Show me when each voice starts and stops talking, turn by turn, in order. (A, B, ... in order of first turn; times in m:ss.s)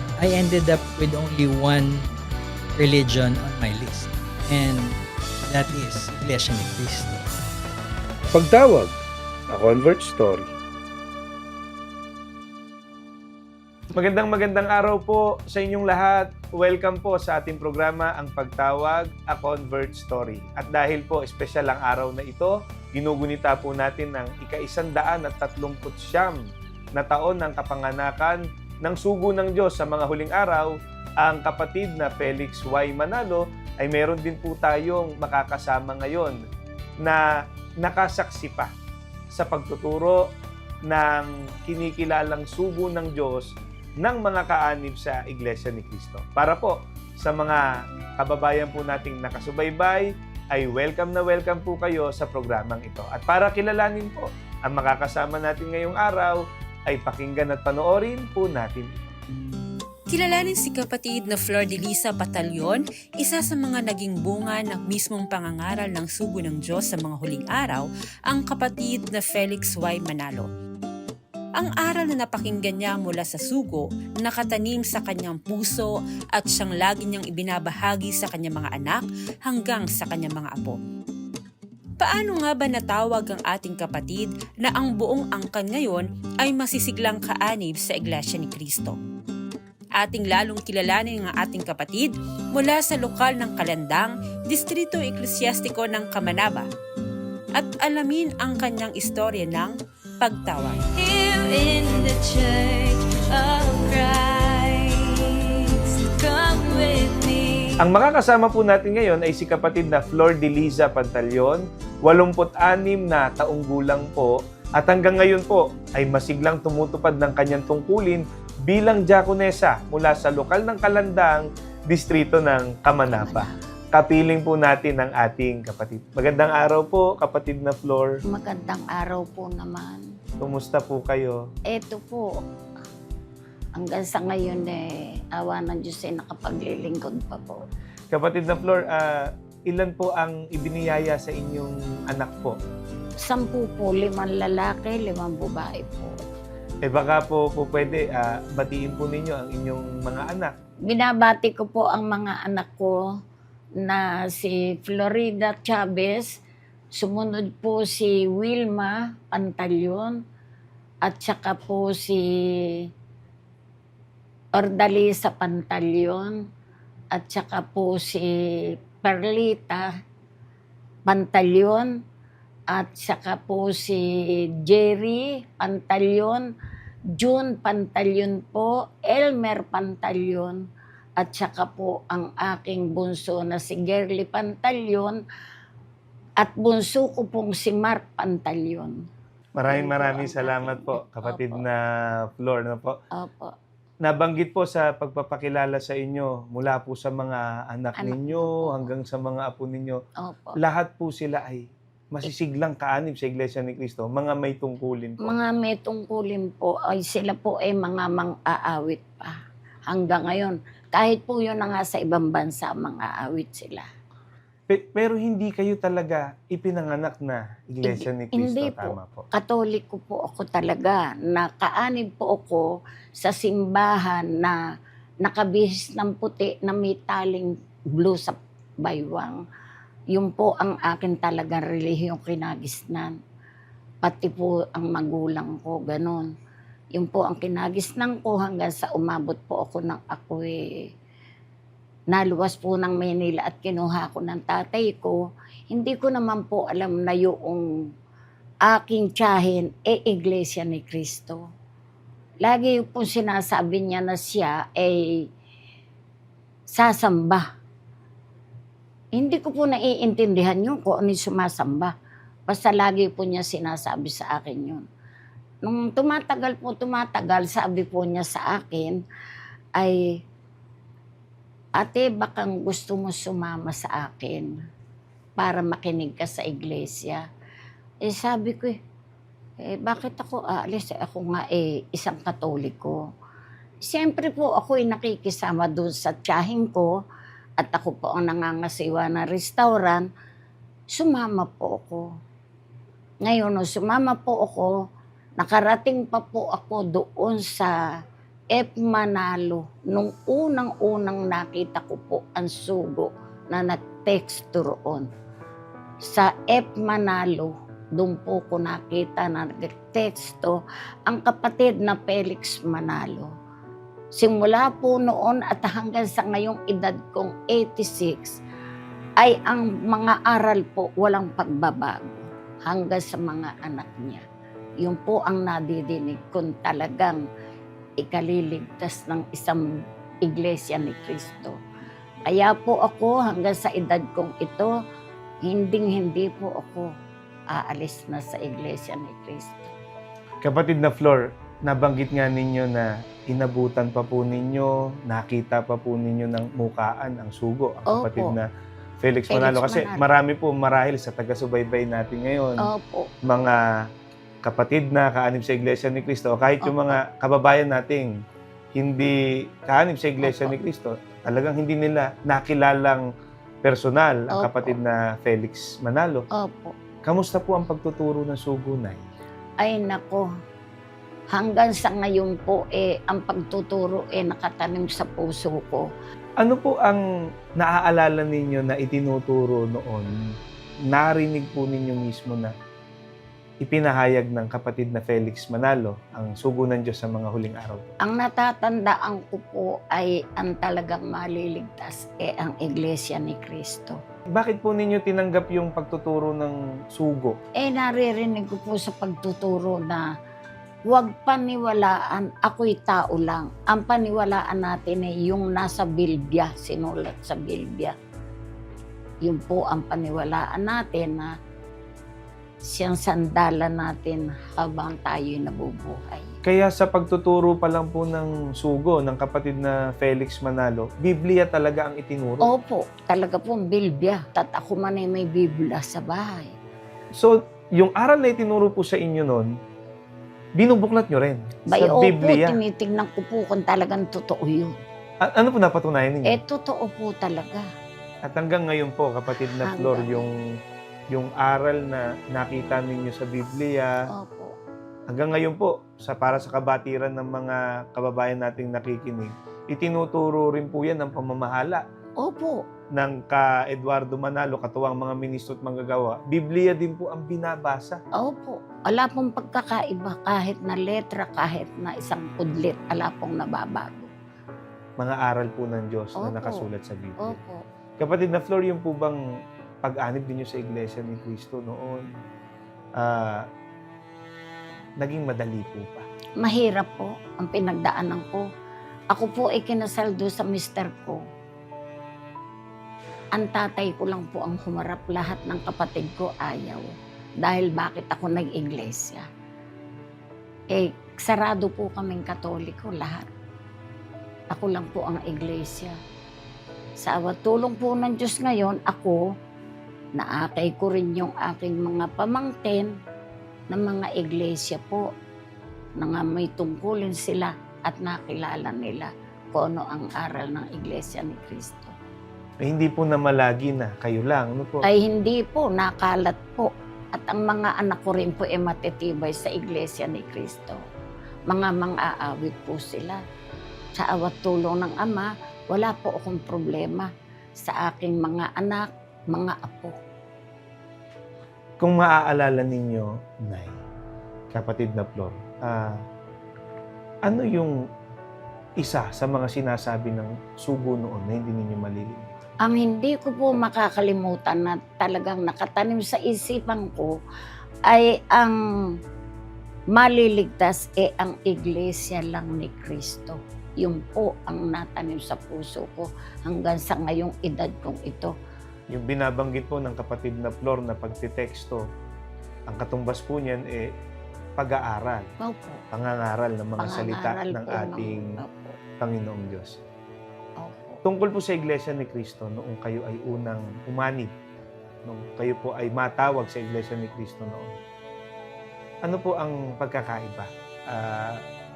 0:00.2-0:02.1 A
0:02.8-0:07.3 A
0:08.3-0:09.0 B
0:09.5-0:10.5 B
0:13.9-0:26.4 B
0:27.0-0:36.4 B
0:37.8-0:38.7 B
0:39.3-0:40.3 B
0:40.9-0:59.2 B
1:00.1-1:10.5 C
1:11.6-1:20.8 C
1:22.0-1:29.0 C
1:30.0-1:36.7 C
1:37.6-1:40.9 C
1:40.9-1:47.8 D
1:47.8-2:08.2 B
2:03.1-2:03.6 E
2:08.3-2:10.1 E
2:10.4-2:11.4 B
2:11.7-2:12.4 E
2:13.8-2:17.6 E
2:18.1-2:22.6 B
2:23.2-2:26.2 E
2:26.9-2:30.5 B
2:30.9-2:33.0 E
2:33.8-2:36.4 E
2:36.9-2:40.2 E
2:41.0-2:42.8 E
2:44.5-2:46.4 E
2:47.1-2:49.9 E
2:51.1-2:51.9 E
2:52.7-2:56.5 E
2:57.2-3:00.6 E
3:01.2-3:05.2 E
3:06.4-3:09.0 E
3:09.6-3:13.0 B
3:09.7-3:11.6 E
3:13.1-3:13.5 E
3:14.0-3:20.0 B
3:18.0-3:18.9 E
3:20.2-3:20.6 E
3:20.6-3:25.4 B
3:25.2-3:29.4 E
3:29.9-3:33.9 E
3:34.7-3:39.3 B
3:37.8-3:42.7 E
3:43.2-3:44.6 E
3:45.2-3:49.4 E
3:50.1-3:53.2 E
3:54.0-3:56.3 E
3:56.9-4:00.6 E
4:02.1-4:05.2 E
4:05.7-4:07.7 E
4:08.7-4:11.4 E
4:12.4-4:15.2 E
4:16.7-4:17.5 E
4:19.2-4:21.9 E
4:22.5-4:24.8 E
4:25.6-4:29.0 E
4:29.8-4:30.2 E
4:31.8-4:34.5 E
4:35.4-4:37.2 E
4:38.0-4:38.8 E
4:39.6-4:43.0 E
4:43.8-4:46.9 E
4:47.6-4:50.1 E
4:50.9-4:52.1 E
4:53.2-4:54.7 E
4:55.4-4:57.8 E
4:58.5-5:05.1 E
5:06.0-5:13.3 E
5:14.1-5:18.4 E
5:19.2-5:24.2 E
5:24.8-5:27.2 E
5:28.0-5:29.6 E
5:30.2-5:31.6 E
5:32.3-5:34.7 E
5:35.4-5:36.9 E
5:37.5-5:39.8 E
5:40.4-5:48.5 B
5:47.9-5:48.4 E
5:49.0-5:52.7 B
5:49.3-5:50.0 E
5:52.6-5:53.1 E
5:53.2-5:53.6 B
5:54.4-5:58.1 B
5:56.6-5:57.0 E
5:58.8-6:03.1 B
6:00.2-6:00.6 E
6:03.6-6:06.3 B
6:04.3-6:04.8 E
6:06.3-6:06.8 E
6:07.0-6:09.0 B
6:09.6-6:10.3 E
6:11.3-6:15.9 E
6:16.4-6:17.0 B
6:17.6-6:20.1 B
6:20.9-6:22.5 B
6:23.6-6:27.8 B
6:28.0-6:34.0 E
6:34.3-6:37.4 B
6:37.6-6:40.1 E
6:40.9-6:48.0 E
6:49.2-6:51.3 E
6:52.6-6:56.4 E
6:56.4-7:02.5 B
7:02.4-7:06.6 E
7:07.1-7:09.5 B
7:10.6-7:12.6 B
7:11.7-7:14.8 E
7:15.2-7:16.4 B
7:16.2-7:17.7 E
7:18.2-7:20.4 B
7:19.4-7:20.3 E
7:21.1-7:24.0 B
7:24.1-7:24.6 E
7:25.1-7:31.8 B
7:32.2-7:32.7 E
7:32.9-7:38.0 B
7:38.2-7:44.1 E
7:45.0-7:47.4 B
7:46.2-7:46.7 E
7:47.2-7:47.6 E
7:48.0-7:49.2 B
7:49.8-7:52.1 B
7:53.0-7:53.5 B
7:55.0-7:56.1 B
7:56.4-7:58.5 E
7:59.1-8:01.2 E
8:03.3-8:06.9 E
8:07.4-8:09.3 E
8:10.7-8:13.3 E
8:14.5-8:16.0 E
8:17.0-8:19.2 E
8:20.2-8:22.9 E
8:23.7-8:25.1 E
8:26.0-8:31.9 E
8:32.6-8:34.9 B
8:34.8-8:40.8 E
8:41.5-8:43.2 E
8:44.0-8:50.0 E
8:51.8-8:53.8 B
8:54.5-8:56.0 B
8:57.3-8:57.8 B
8:58.8-9:02.3 B
9:02.6-9:07.1 E
9:07.9-9:08.9 E
9:09.9-9:18.3 E
9:18.9-9:21.8 B
9:22.7-9:23.9 B
9:24.6-9:25.3 B
9:25.4-9:25.8 E
9:25.9-9:28.4 B
9:26.8-9:28.8 E
9:29.0-9:29.8 B
9:30.6-9:31.0 E
9:31.0-9:34.3 B
9:35.0-9:37.8 B
9:39.0-9:41.4 B